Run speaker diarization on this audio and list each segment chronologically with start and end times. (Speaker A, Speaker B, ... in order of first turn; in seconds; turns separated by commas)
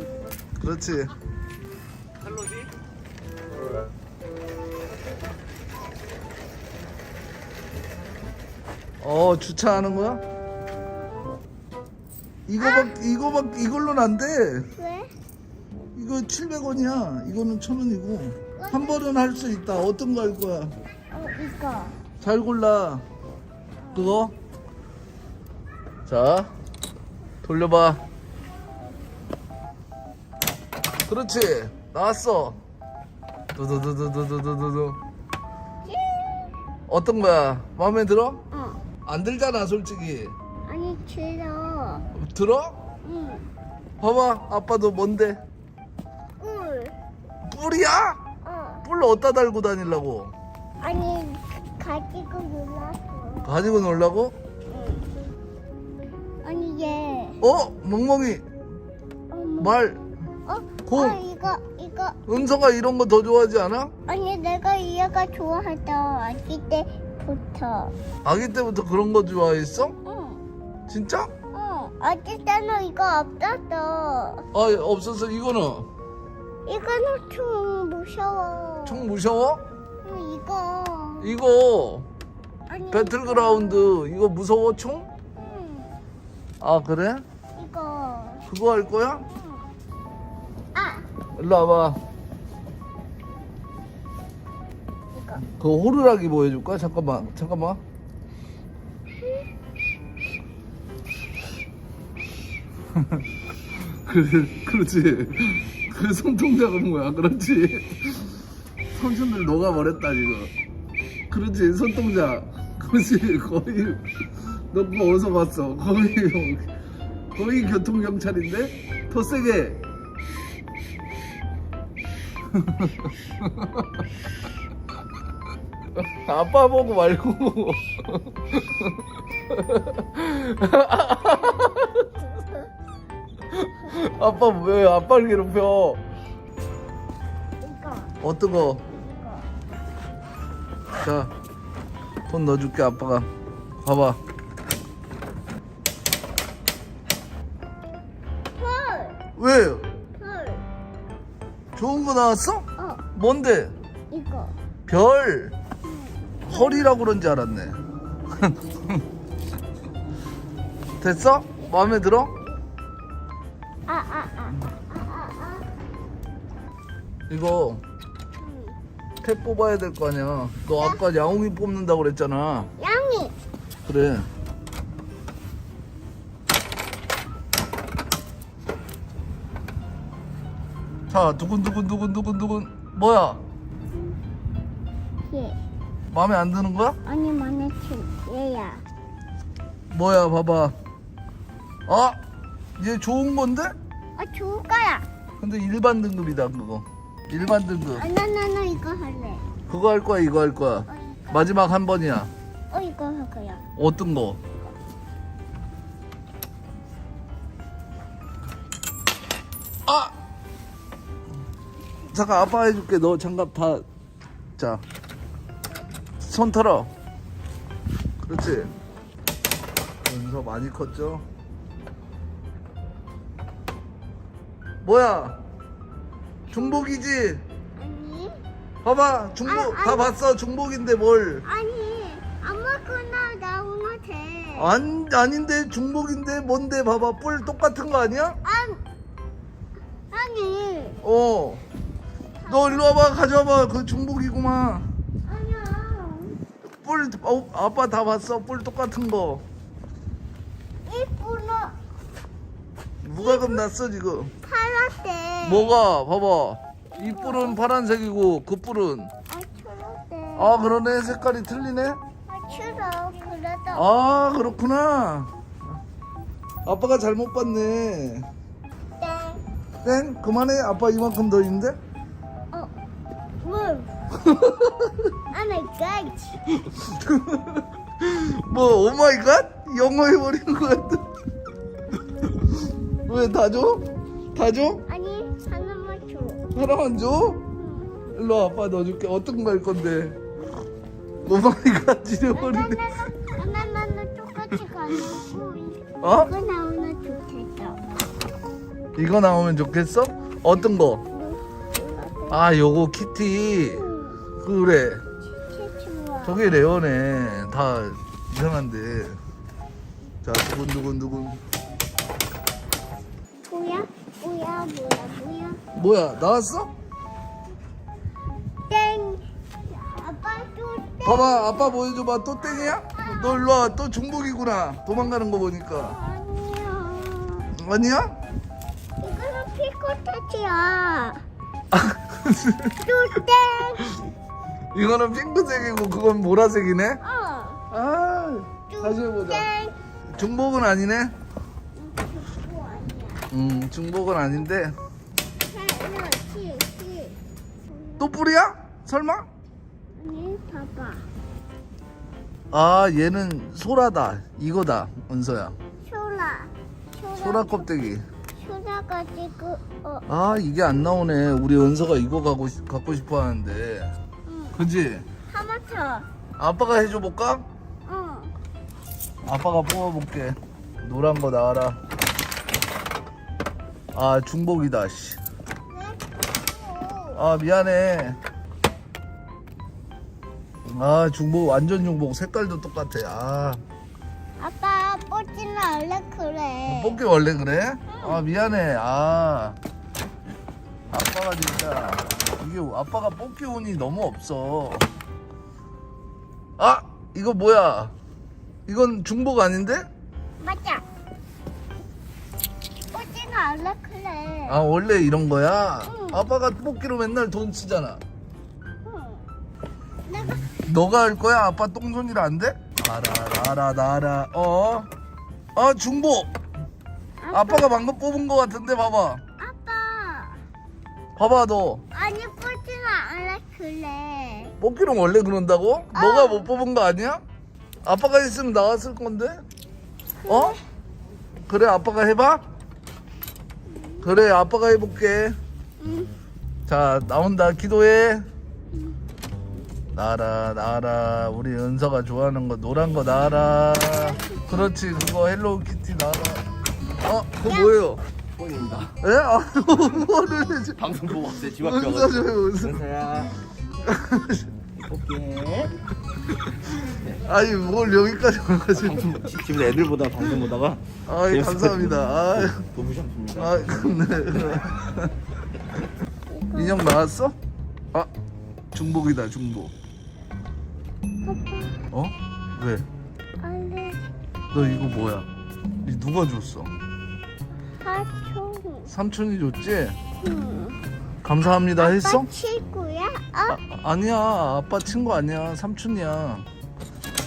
Speaker A: 0.6-1.1, Speaker A: 9.0-10.2, Speaker A: 12.5-14.7, Speaker B: 12.6-12.9, Speaker B: 14.7-15.1, Speaker A: 15.9-20.7, Speaker B: 18.6-19.1, Speaker B: 21.1-22.0, Speaker A: 22.2-23.0, Speaker B: 23.8-24.3, Speaker A: 23.9-24.3, Speaker A: 26.1-26.5, Speaker A: 27.4-28.0, Speaker A: 31.1-32.6, Speaker A: 33.5-35.0, Speaker B: 35.8-36.6, Speaker A: 36.9-38.4, Speaker B: 38.5-38.8, Speaker A: 39.0-40.4, Speaker B: 40.6-42.0, Speaker A: 42.1-42.8, Speaker B: 43.0-43.5, Speaker A: 44.0-45.4, Speaker B: 46.4-46.9, Speaker A: 47.4-48.2, Speaker B: 48.4-48.8, Speaker A: 48.8-50.3, Speaker B: 50.8-53.7, Speaker A: 53.4-54.3, Speaker B: 54.7-55.1, Speaker B: 56.4-57.4, Speaker A: 57.4-58.4, Speaker B: 59.3-59.8, Speaker A: 59.6-60.0, Speaker B: 60.5-62.2, Speaker A: 60.9-61.2, Speaker A: 62.3-63.9, Speaker B: 64.1-67.9, Speaker A: 68.2-70.0, Speaker B: 70.0-70.4, Speaker A: 70.9-71.3, Speaker B: 71.5-74.4, Speaker A: 74.5-75.9, Speaker B: 76.7-79.1, Speaker A: 78.8-79.6, Speaker B: 80.0-81.3, Speaker A: 81.2-82.1, Speaker B: 82.7-84.0, Speaker A: 82.9-85.1, Speaker B: 85.3-86.0, Speaker A: 86.6-87.2, Speaker B: 87.5-88.5, Speaker A: 88.5-89.2, Speaker B: 89.3-89.7, Speaker B: 90.7-91.0, Speaker A: 91.4-92.0, Speaker B: 95.1-95.5, Speaker A: 95.4-97.8, Speaker A: 103.8-108.3, Speaker A: 108.9-110.5, Speaker A: 111.3-114.0, Speaker A: 114.7-116.7, Speaker A: 117.3-119.8, Speaker A: 122.5-123.9, Speaker A: 126.0-132.1, Speaker B: 132.2-132.7, Speaker A: 133.5-136.0, Speaker B: 137.6-138.2, Speaker A: 138.2-138.8, Speaker B: 138.8-139.5, Speaker A: 141.0-141.3, Speaker A: 142.3-143.3, Speaker A: 143.8-144.2, Speaker B: 148.5-149.2, Speaker A: 149.4-149.9, Speaker B: 150.1-150.6, Speaker A: 151.7-153.7, Speaker B: 152.8-153.0, Speaker B: 154.1-154.5, Speaker A: 154.9-155.6, Speaker B: 155.8-157.0, Speaker A: 156.5-157.8, Speaker A: 158.3-159.0, Speaker A: 161.0-162.3, Speaker B: 162.3-162.6, Speaker B: 163.9-165.7, Speaker A: 167.3-167.8, Speaker B: 168.4-168.8, Speaker A: 169.2-172.7, Speaker B: 170.8-171.0, Speaker B: 172.8-173.3, Speaker A: 173.8-174.3, Speaker A: 181.1-183.4, Speaker B: 185.2-185.6, Speaker A: 186.1-187.0, Speaker B: 187.0-188.8, Speaker A: 189.9-190.7, Speaker A: 191.9-192.2, Speaker A: 192.8-193.7, Speaker B: 194.2-195.1, Speaker A: 195.4-198.1, Speaker B: 198.0-199.4, Speaker A: 199.7-202.3, Speaker B: 200.9-201.5, Speaker B: 202.7-203.6, Speaker A: 203.8-204.4, Speaker A: 209.9-210.1, Speaker A: 212.1-213.8, Speaker A: 214.6-214.8, Speaker A: 216.2-216.9, Speaker A: 218.2-218.7, Speaker A: 220.0-221.2, Speaker A: 224.8-225.4, Speaker B: 226.5-226.9, Speaker A: 226.5-227.4, Speaker B: 227.8-228.4, Speaker A: 228.8-231.4, Speaker B: 229.4-230.1, Speaker B: 231.4-234.7, Speaker A: 234.6-238.4, Speaker B: 238.4-238.8, Speaker B: 240.1-241.0, Speaker A: 241.0-241.6, Speaker B: 242.4-242.8, Speaker A: 242.5-244.9, Speaker B: 245.2-246.4, Speaker A: 246.8-249.4, Speaker B: 250.8-251.7, Speaker A: 253.0-254.3, Speaker B: 253.2-253.6, Speaker B: 254.4-255.7, Speaker A: 255.4-259.1, Speaker B: 256.9-257.6, Speaker B: 259.3-260.6, Speaker A: 260.4-262.0, Speaker B: 262.3-263.9, Speaker A: 263.7-265.3, Speaker A: 266.6-268.3, Speaker B: 269.0-269.4, Speaker A: 269.8-271.8, Speaker B: 273.4-273.9, Speaker A: 274.2-275.1, Speaker B: 275.3-276.4, Speaker A: 276.6-281.0, Speaker A: 283.1-284.8, Speaker B: 284.9-286.4, Speaker A: 286.5-287.4, Speaker B: 287.6-288.1, Speaker A: 288.1-290.2, Speaker A: 291.2-292.8, Speaker B: 292.3-297.8, Speaker A: 296.0-296.3, Speaker A: 299.0-301.0, Speaker B: 301.1-302.4, Speaker A: 302.3-303.8, Speaker B: 303.7-304.2, Speaker A: 304.4-305.0, Speaker B: 305.2-306.5, Speaker A: 306.2-309.2, Speaker A: 310.2-311.4, Speaker B: 313.4-315.6, Speaker A: 315.7-316.7, Speaker B: 318.7-321.7, Speaker A: 321.0-326.0, Speaker B: 322.6-323.4, Speaker B: 325.8-327.5, Speaker A: 327.5-328.2, Speaker B: 329.0-331.2, Speaker A: 331.7-332.7, Speaker B: 332.8-333.9, Speaker A: 334.7-337.0, Speaker B: 337.0-337.6, Speaker A: 337.7-339.5, Speaker B: 338.7-339.8, Speaker A: 340.1-341.1, Speaker B: 341.7-343.3, Speaker A: 343.3-344.7, Speaker B: 345.4-347.2, Speaker B: 347.7-348.1, Speaker A: 348.0-349.3, Speaker B: 349.9-351.1, Speaker A: 352.5-355.6, Speaker B: 355.8-357.7, Speaker A: 357.2-358.0, Speaker B: 358.3-360.1, Speaker A: 360.1-363.9, Speaker B: 364.2-364.6, Speaker A: 364.6-365.1, Speaker B: 365.3-366.1, Speaker A: 366.4-367.4, Speaker B: 367.9-368.3, Speaker A: 369.2-371.8, Speaker A: 373.9-375.2, Speaker B: 375.7-377.2, Speaker A: 377.1-378.2, Speaker A: 380.6-383.6, Speaker B: 384.4-387.0, Speaker A: 386.7-389.6, Speaker B: 387.9-388.2, Speaker A: 390.9-394.9, Speaker A: 396.6-397.9, Speaker A: 398.7-399.8, Speaker B: 400.4-400.8, Speaker B: 402.9-404.6, Speaker A: 404.5-408.0, Speaker B: 405.9-406.3, Speaker B: 408.8-409.3, Speaker B: 410.0-410.5, Speaker A: 410.5-414.9, Speaker A: 415.6-416.3, Speaker B: 417.2-417.8, Speaker A: 417.3-419.2, Speaker B: 419.4-420.4, Speaker A: 421.1-421.8, Speaker B: 421.9-424.6, Speaker A: 424.6-427.2, Speaker B: 425.9-426.5, Speaker A: 427.8-429.4, Speaker B: 430.2-430.6, Speaker A: 430.3-430.6, Speaker A: 431.5-432.4, Speaker B: 433.7-434.1, Speaker A: 434.0-435.4, Speaker B: 435.8-436.1, Speaker A: 436.7-438.2, Speaker A: 439.9-446.4, Speaker B: 443.9-444.5, Speaker A: 447.0-448.0, Speaker B: 447.4-447.8, Speaker C: 448.4-448.9, Speaker A: 449.0-450.8, Speaker C: 450.8-453.3, Speaker A: 451.6-452.8, Speaker A: 453.8-454.5, Speaker C: 454.8-455.7, Speaker A: 457.2-459.3, Speaker C: 458.7-464.3, Speaker A: 461.1-462.6, Speaker A: 463.4-465.1, Speaker B: 466.3-466.9, Speaker A: 466.5-467.3, Speaker A: 468.7-469.7, Speaker B: 471.2-471.8, Speaker A: 471.9-472.9, Speaker B: 473.4-474.1, Speaker A: 474.5-475.3, Speaker A: 475.8-476.7, Speaker B: 477.8-478.9, Speaker A: 478.9-480.0, Speaker B: 480.2-480.8, Speaker A: 481.2-482.3, Speaker B: 481.8-483.6, Speaker A: 483.5-486.5